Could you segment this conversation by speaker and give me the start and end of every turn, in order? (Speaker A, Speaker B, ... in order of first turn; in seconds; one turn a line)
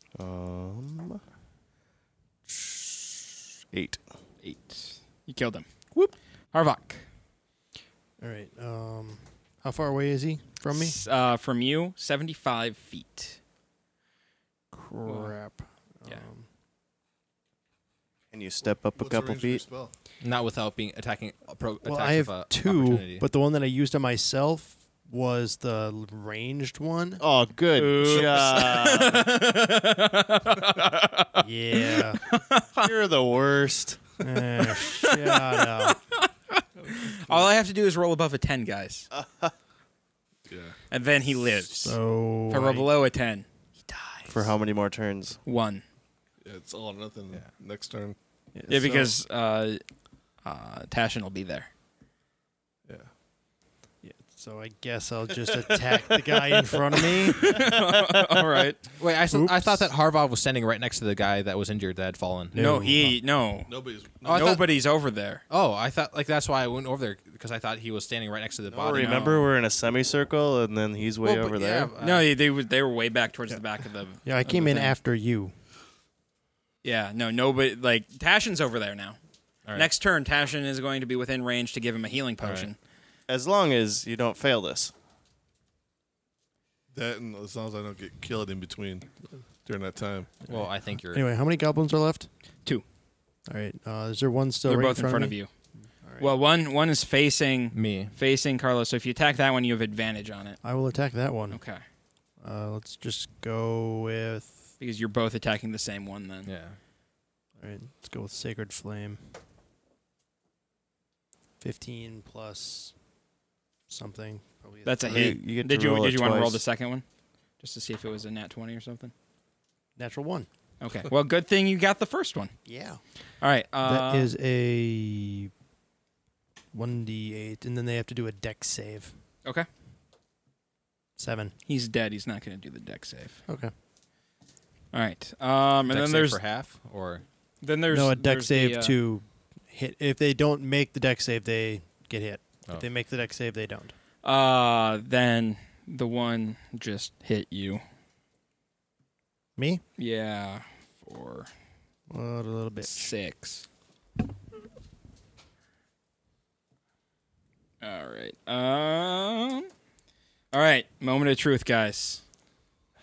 Speaker A: 0.2-1.2
Speaker A: 2.5-4.0
Speaker B: 4.4-5.7
Speaker B: 6.5-7.0
Speaker C: 8.2-11.0
Speaker B: 10.7-13.4
Speaker C: 14.7-16.5
Speaker B: 15.1-15.3
Speaker A: 18.3-19.6
Speaker D: 18.9-19.9
Speaker E: 20.2-23.2
Speaker C: 21.8-27.2
Speaker A: 27.2-29.3
Speaker B: 27.8-32.9
Speaker C: 31.4-32.2
Speaker A: 32.8-34.1
Speaker C: 34.2-36.0
Speaker B: 34.6-39.1
Speaker D: 36.8-37.5
Speaker A: 39.1-39.5
Speaker D: 40.5-40.8
Speaker B: 40.9-44.5
Speaker C: 41.8-42.9
Speaker A: 44.3-45.4
Speaker B: 45.5-45.8
Speaker D: 46.4-48.2
Speaker C: 48.5-49.2
Speaker B: 48.7-49.8
Speaker B: 50.4-51.7
Speaker C: 54.0-57.8
Speaker B: 57.0-58.8
Speaker E: 59.0-62.6
Speaker C: 59.3-59.9
Speaker C: 62.5-63.1
Speaker B: 62.5-63.7
Speaker D: 63.7-64.6
Speaker B: 64.2-65.4
Speaker E: 64.2-64.6
Speaker E: 65.5-69.5
Speaker A: 68.7-71.9
Speaker B: 68.9-69.5
Speaker E: 71.2-72.3
Speaker B: 72.0-74.9
Speaker C: 74.2-75.5
Speaker B: 76.8-79.2
Speaker B: 79.8-82.8
Speaker E: 82.4-82.7
Speaker A: 83.3-84.9
Speaker D: 86.9-89.1
Speaker D: 89.7-90.4
Speaker E: 90.5-91.2
Speaker C: 90.5-92.3
Speaker C: 93.5-95.4
Speaker B: 94.7-95.5
Speaker C: 96.0-96.3
Speaker B: 96.2-100.6
Speaker E: 97.7-98.1
Speaker C: 100.6-101.6
Speaker B: 101.5-101.8
Speaker C: 102.4-104.6
Speaker B: 104.8-106.5
Speaker E: 106.5-106.8
Speaker C: 107.6-109.2
Speaker C: 111.6-112.9
Speaker C: 113.9-115.4
Speaker B: 114.8-117.0
Speaker A: 115.0-116.6
Speaker B: 117.6-119.1
Speaker C: 120.0-120.5
Speaker B: 120.8-122.5
Speaker C: 122.7-123.0
Speaker B: 123.4-124.3
Speaker C: 123.8-125.5
Speaker C: 126.7-129.1
Speaker C: 131.2-131.5
Speaker B: 131.7-133.4
Speaker C: 133.5-133.7
Speaker B: 134.9-136.4
Speaker E: 135.9-137.2
Speaker B: 137.6-139.0
Speaker C: 137.9-143.9
Speaker B: 144.2-147.8
Speaker C: 149.6-149.8
Speaker B: 150.0-151.5
Speaker C: 152.1-153.1
Speaker B: 152.8-153.7
Speaker B: 157.8-159.7
Speaker B: 160.5-162.2